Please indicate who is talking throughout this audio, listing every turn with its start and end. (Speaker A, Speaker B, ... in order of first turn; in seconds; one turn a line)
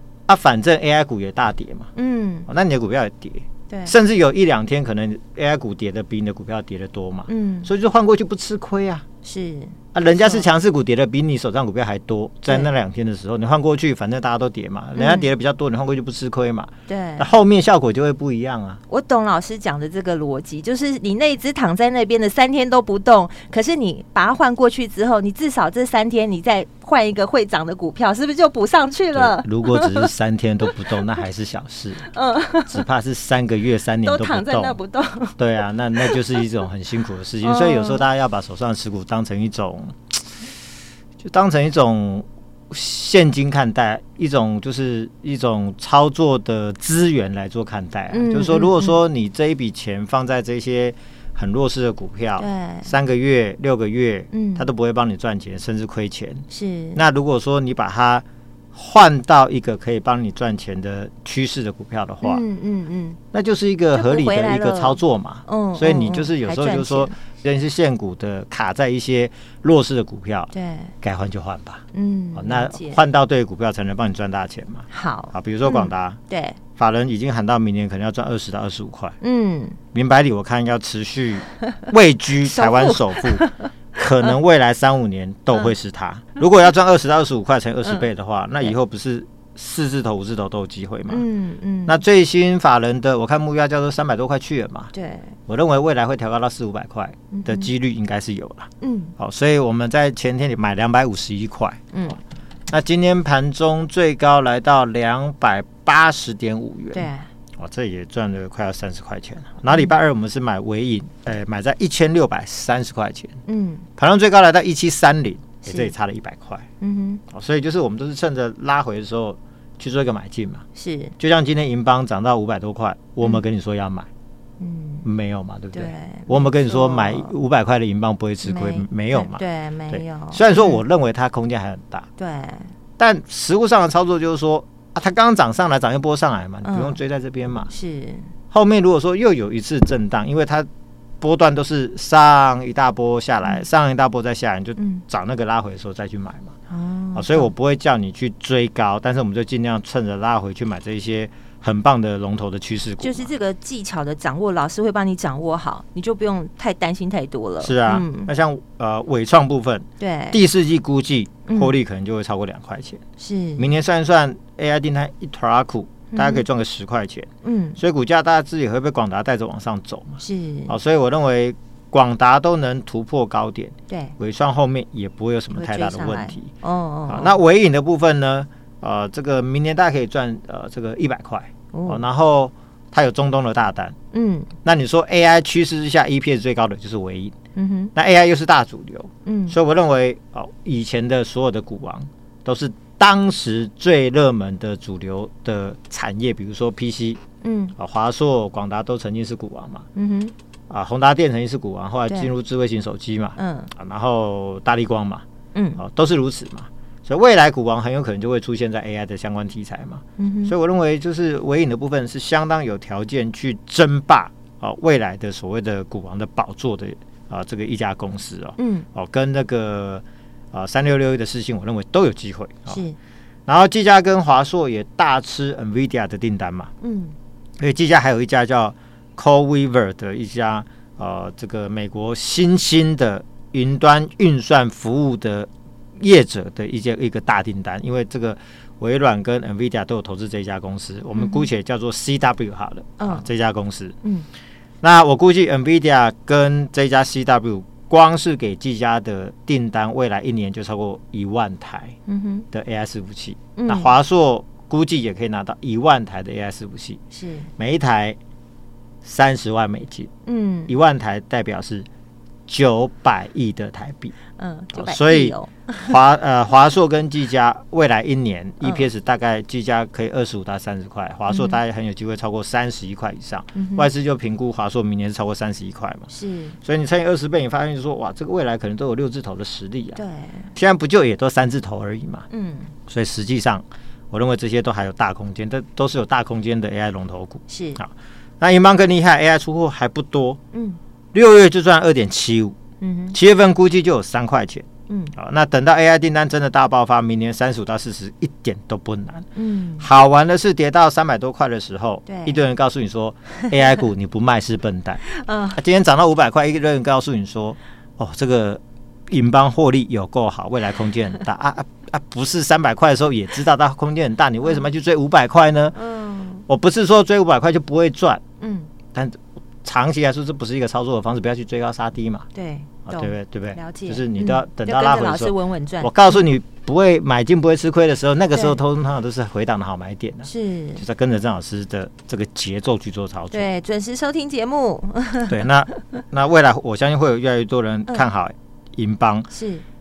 Speaker A: 0.3-1.9
Speaker B: 1.9-2.5
Speaker A: 2.5-9.0
Speaker B: 3.7-3.9
Speaker B: 7.3-7.7
Speaker B: 9.2-10.5
Speaker A: 9.9-18.8
Speaker B: 14.9-15.3
Speaker B: 16.9-17.3
Speaker B: 18.9-30.1
Speaker A: 29.1-32.1
Speaker B: 32.1-32.8
Speaker A: 32.6-34.8
Speaker B: 34.0-35.4
Speaker A: 35.4-40.1
Speaker B: 37.4-38.0
Speaker A: 41.2-56.4
Speaker B: 48.1-49.0
Speaker B: 52.4-52.9
Speaker B: 54.3-54.7
Speaker B: 56.5-57.0
Speaker A: 56.9-62.4
Speaker B: 62.2-63.2
Speaker A: 63.3-71.8
Speaker B: 63.9-67.1
Speaker B: 70.5-70.9
Speaker B: 71.9-73.0
Speaker A: 72.3-76.2
Speaker B: 74.9-76.6
Speaker A: 76.8-79.2
Speaker B: 79.2-79.8
Speaker A: 79.9-91.3
Speaker B: 82.4-83.5
Speaker B: 91.1-92.0
Speaker A: 91.8-94.9
Speaker B: 94.9-95.3
Speaker A: 95.5-102.2
Speaker B: 97.3-97.7
Speaker B: 98.8-99.1
Speaker B: 101.9-102.2
Speaker A: 102.7-113.4
Speaker B: 106.9-107.3
Speaker B: 113.5-113.8
Speaker A: 114.0-116.7
Speaker B: 115.7-115.9
Speaker B: 116.8-117.2
Speaker A: 117.3-120.6
Speaker B: 120.8-121.1
Speaker A: 121.2-124.1
Speaker B: 124.6-125.0
Speaker A: 125.0-132.1
Speaker B: 125.7-127.3
Speaker B: 128.4-130.8
Speaker B: 132.2-132.7
Speaker A: 133.0-137.7
Speaker B: 136.6-137.0
Speaker B: 137.7-138.3
Speaker A: 138.5-140.7
Speaker A: 141.2-146.5
Speaker B: 144.8-145.0
Speaker B: 146.7-147.5
Speaker A: 147.1-153.3
Speaker B: 153.0-158.3
Speaker A: 157.6-163.0
Speaker B: 160.0-160.4
Speaker B: 161.5-161.8
Speaker B: 163.2-163.7
Speaker A: 163.6-176.5
Speaker B: 166.1-166.4
Speaker B: 167.4-167.8
Speaker B: 170.2-170.7
Speaker B: 173.9-174.1
Speaker B: 175.5-177.3
Speaker A: 177.1-183.9
Speaker B: 181.7-182.0
Speaker B: 184.1-184.5
Speaker A: 184.6-187.3
Speaker B: 187.5-187.9
Speaker A: 187.9-197.2
Speaker B: 189.2-189.6
Speaker B: 197.4-197.7
Speaker A: 197.8-199.9
Speaker B: 199.9-200.3
Speaker A: 200.7-205.2
Speaker B: 203.4-203.7
Speaker B: 205.5-205.8
Speaker A: 205.8-222.8
Speaker B: 210.2-210.5
Speaker B: 218.6-218.8
Speaker B: 222.7-223.0
Speaker A: 223.5-226.7
Speaker B: 226.8-227.1
Speaker A: 227.6-243.9
Speaker B: 241.2-241.5
Speaker B: 243.0-243.2
Speaker A: 244.8-251.9
Speaker B: 252.1-252.4
Speaker A: 252.5-257.0
Speaker B: 253.6-253.9
Speaker B: 257.1-257.5
Speaker A: 257.6-258.2
Speaker A: 259.0-260.1
Speaker B: 260.2-260.7
Speaker A: 260.7-261.9
Speaker A: 262.5-264.1
Speaker B: 264.4-265.9
Speaker A: 264.7-276.1
Speaker B: 271.3-271.6
Speaker B: 273.6-273.9
Speaker B: 276.1-276.6
Speaker A: 276.6-280.0
Speaker B: 279.9-280.5
Speaker A: 280.5-282.3
Speaker B: 282.3-282.7
Speaker A: 282.9-290.4
Speaker B: 287.5-287.8
Speaker B: 290.5-290.8
Speaker A: 291.1-292.6
Speaker B: 292.8-293.2
Speaker A: 293.1-299.3
Speaker B: 294.9-295.1
Speaker B: 299.4-299.9
Speaker A: 299.8-315.8
Speaker B: 302.1-302.4
Speaker B: 305.1-305.6
Speaker B: 315.8-316.4
Speaker A: 316.5-318.2
Speaker B: 318.4-318.7
Speaker A: 318.9-322.3
Speaker B: 322.3-326.1
Speaker A: 322.9-333.5
Speaker B: 330.2-330.8
Speaker B: 333.3-335.4
Speaker A: 335.3-339.3
Speaker B: 339.3-339.6